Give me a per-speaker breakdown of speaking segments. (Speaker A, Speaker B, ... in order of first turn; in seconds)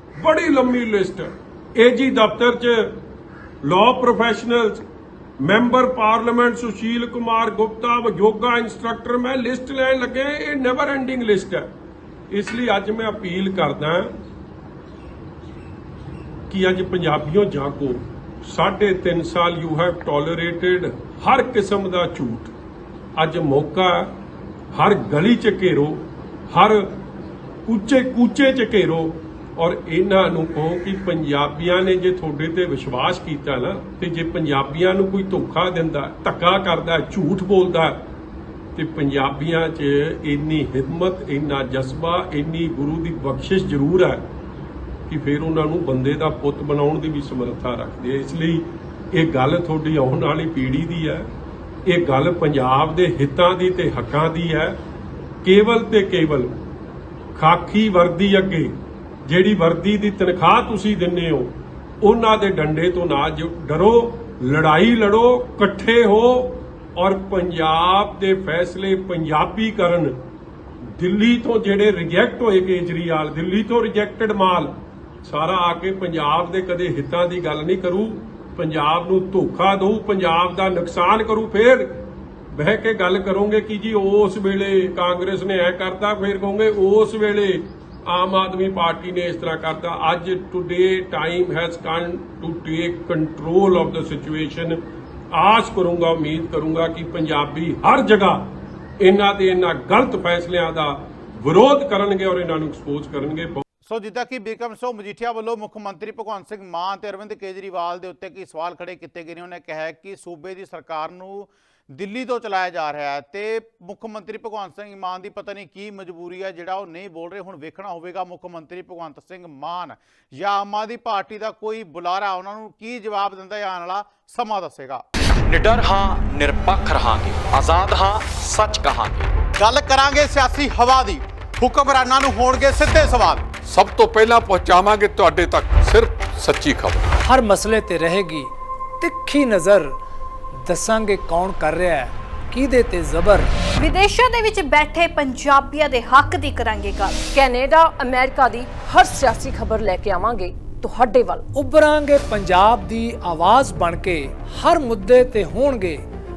Speaker A: 0.1-3.0, 3.6-4.8, 5.4-11.7, 12.3-14.1, 16.5-22.5, 23.1-24.1, 24.7-27.0, 27.6-38.0, 38.7-44.2, 45.1-51.3, 51.9-54.8, 55.4-56.5, 57.3-58.7, 59.2-70.2, 70.9-94.8, 95.3-103.6
Speaker B: 103.8-125.0, 129.6-133.4
Speaker C: 125.4-129.3
Speaker D: 133.7-137.0
Speaker E: 137.2-140.0, 140.6-143.5, 151.5-156.0
Speaker F: 143.8-147.3
Speaker G: 147.3-151.4